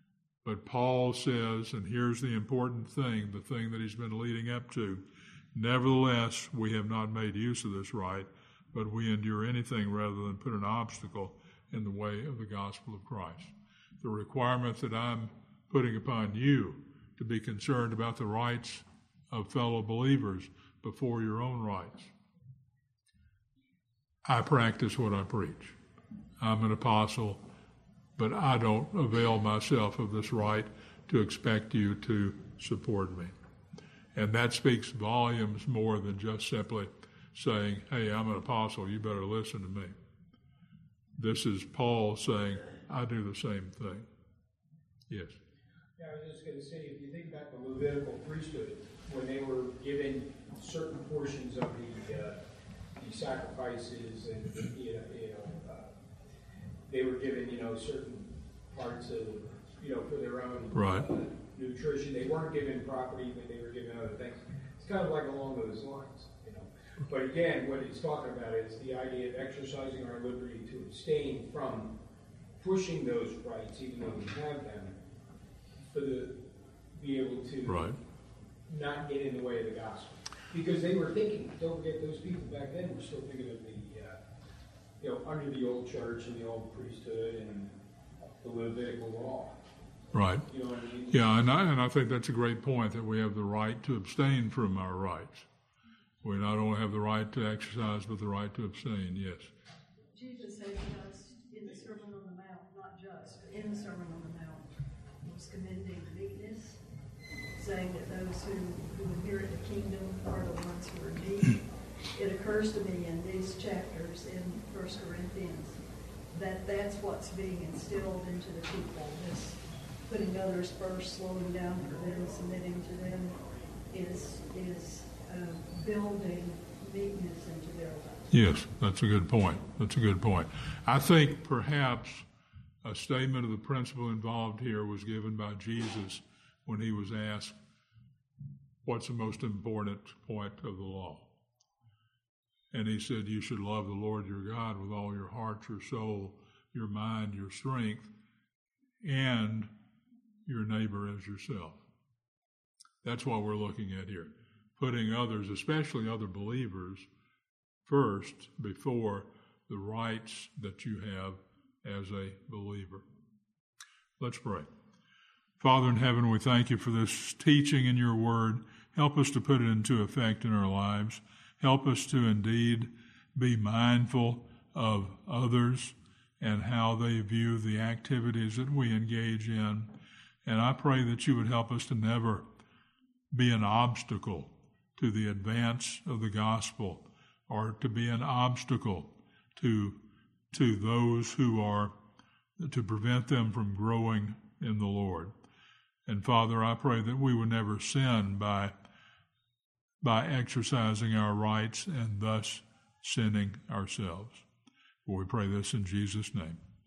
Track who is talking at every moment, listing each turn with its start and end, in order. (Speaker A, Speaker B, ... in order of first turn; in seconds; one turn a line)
Speaker A: 0.4-22.1
Speaker A: 24.2-25.8
Speaker A: 26.4-27.4
Speaker A: 28.2-33.3
Speaker A: 34.1-39.9
Speaker A: 41.2-44.1
Speaker A: 45.1-45.4
Speaker B: 46.0-52.4
Speaker B: 53.0-55.9
Speaker B: 56.9-72.0
Speaker A: 60.7-61.1
Speaker B: 72.6-75.0
Speaker B: 75.9-77.9
Speaker A: 77.7-78.0
Speaker B: 78.7-84.2
Speaker B: 85.0-87.7
Speaker B: 88.4-89.6
Speaker A: 90.1-90.5
Speaker B: 90.5-91.2
Speaker A: 91.1-95.5
Speaker A: 96.2-99.5
Speaker C: 100.1-104.7
Speaker C: 105.2-106.8
Speaker C: 107.5-111.6
Speaker C: 112.1-115.8
Speaker C: 116.3-128.3
Speaker A: 128.3-132.2
Speaker A: 132.8-137.6
Speaker A: 138.8-141.3
Speaker A: 142.7-148.1
Speaker A: 149.0-149.7
Speaker A: 150.4-151.8
Speaker A: 153.0-157.1
Speaker A: 157.9-163.0
Speaker A: 164.2-164.7
Speaker A: 165.6-182.4
Speaker A: 183.3-190.0
Speaker A: 190.5-191.9
Speaker A: 192.6-195.3
Speaker A: 196.1-198.7
Speaker A: 200.0-204.4
Speaker A: 205.1-206.6